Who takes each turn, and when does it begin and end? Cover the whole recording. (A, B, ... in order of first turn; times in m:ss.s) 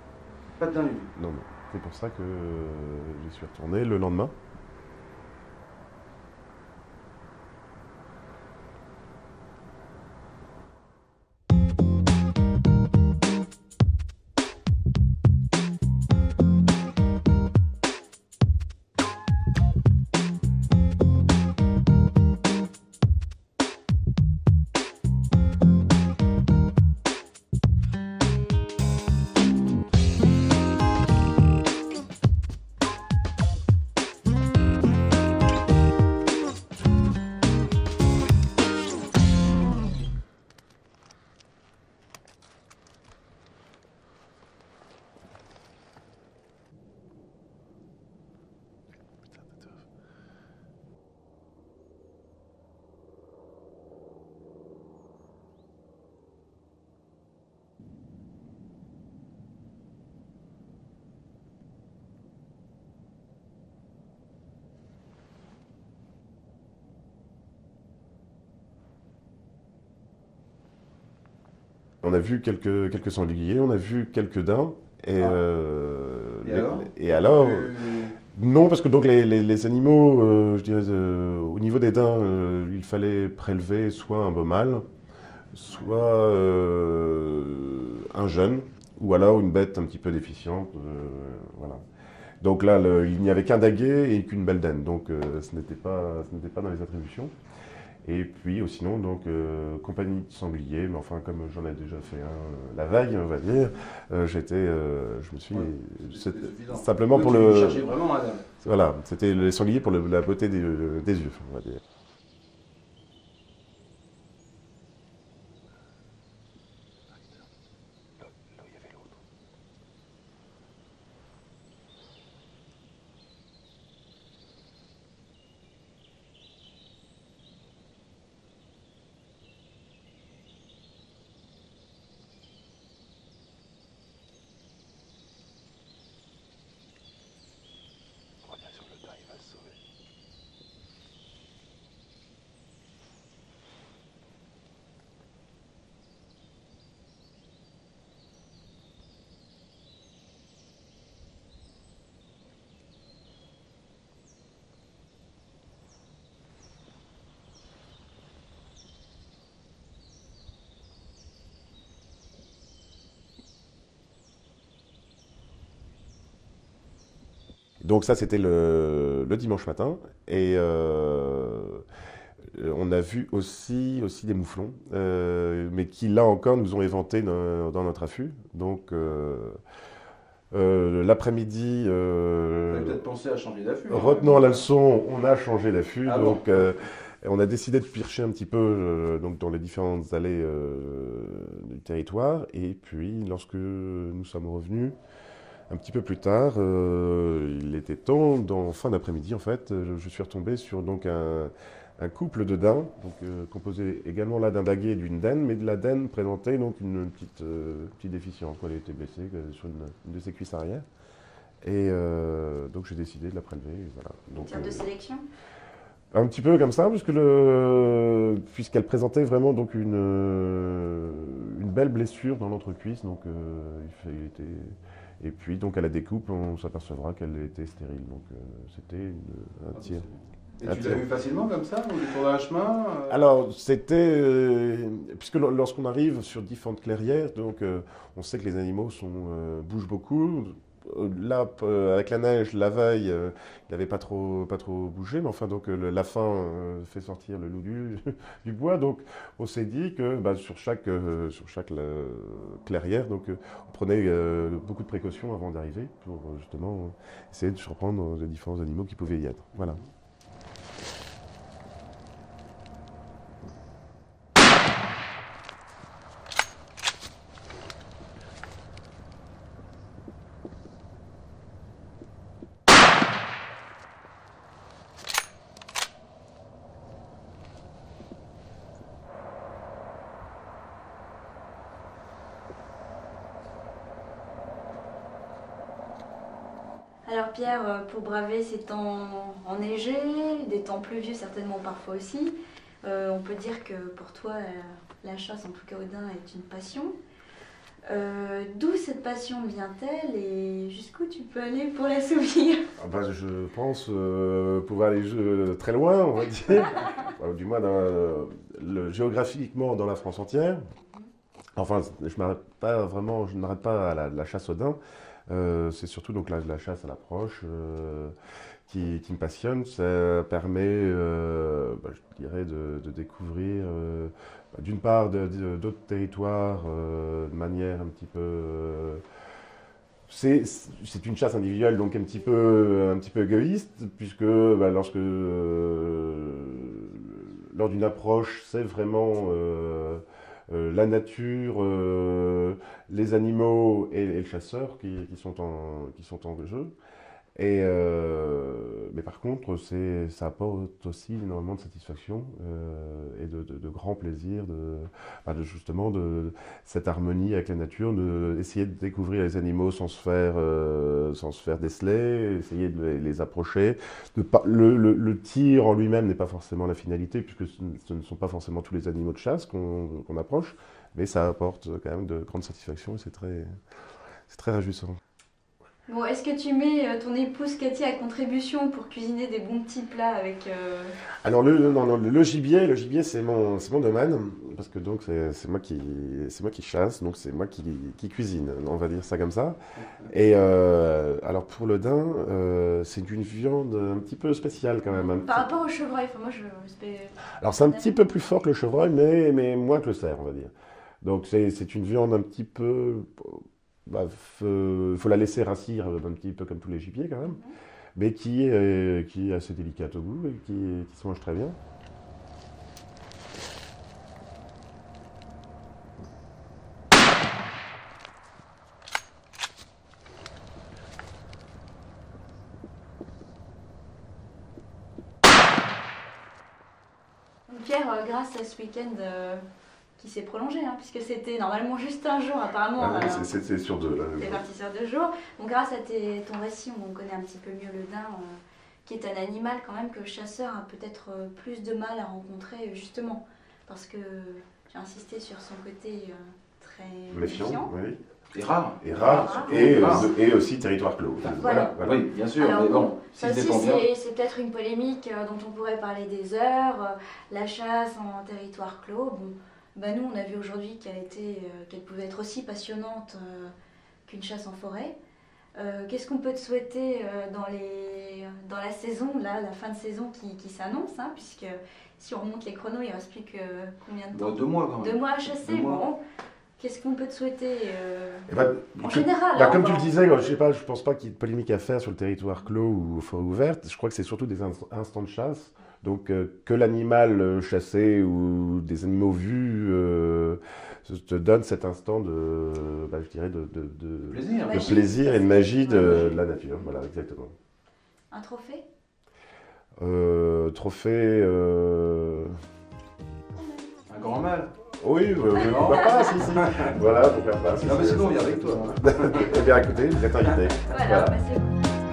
0:00.6-0:01.1 A
0:01.1-0:04.3 B
1:12.0-1:17.7 B
1:15.2-1:15.4 A
1:16.4-1:18.2 A
1:18.3-1:24.8 B
1:25.5-1:31.8 B
1:32.4-1:37.3 B
1:38.0-1:47.9 B
1:45.5-1:48.4 A
1:48.6-1:51.8 B
2:18.5-2:19.7 A
2:47.8-2:51.8 B
2:52.5-2:59.6 B
3:00.5-3:03.0 B
3:02.7-3:04.6 A
3:03.9-3:15.0 B
3:06.0-3:06.7 A
3:15.7-3:30.8 B
3:31.6-3:34.8 B
3:34.4-3:35.2 C
3:36.1-3:50.1 B
3:49.7-3:53.2 A
3:50.6-3:51.0 B
3:53.1-4:19.8 B
4:19.5-4:19.9 A
4:47.0-4:56.9 C
4:57.9-5:02.6 C
5:02.8-5:10.6 B
5:11.6-5:18.1 B
5:18.7-5:29.0 B
5:30.1-5:46.7 B
5:47.4-6:13.6 B
6:14.3-6:15.0 B
6:15.9-6:20.9 C
6:21.2-6:29.6 B
6:30.1-6:35.5 B
6:34.9-6:38.4 C
6:37.4-6:47.4 B
6:47.2-6:47.5 C
6:47.9-6:51.6 B
7:07.5-7:09.4 C
7:10.0-7:13.3 C
7:12.8-7:14.4 B
7:14.2-7:27.7 C
7:27.1-7:28.0 B
7:28.3-7:30.1 A
7:28.8-7:32.0 B
7:28.9-7:30.0 C
7:31.2-7:33.8 A
7:31.2-7:31.8 C
7:32.3-7:43.5 C
7:44.1-7:44.9 C
7:45.6-7:56.0 C
7:54.1-7:55.8 A
7:56.6-7:59.9 C
7:58.3-8:17.3 B
8:14.1-8:14.8 A
8:14.4-8:16.2 C
8:15.7-8:16.2 A
8:18.1-8:18.6 C
8:19.8-8:22.4 B
8:23.9-8:24.5 A
8:24.8-8:31.2 B
8:25.3-8:26.8 A
8:27.6-8:29.5 A
8:30.2-8:30.5 A
8:30.7-8:31.6 C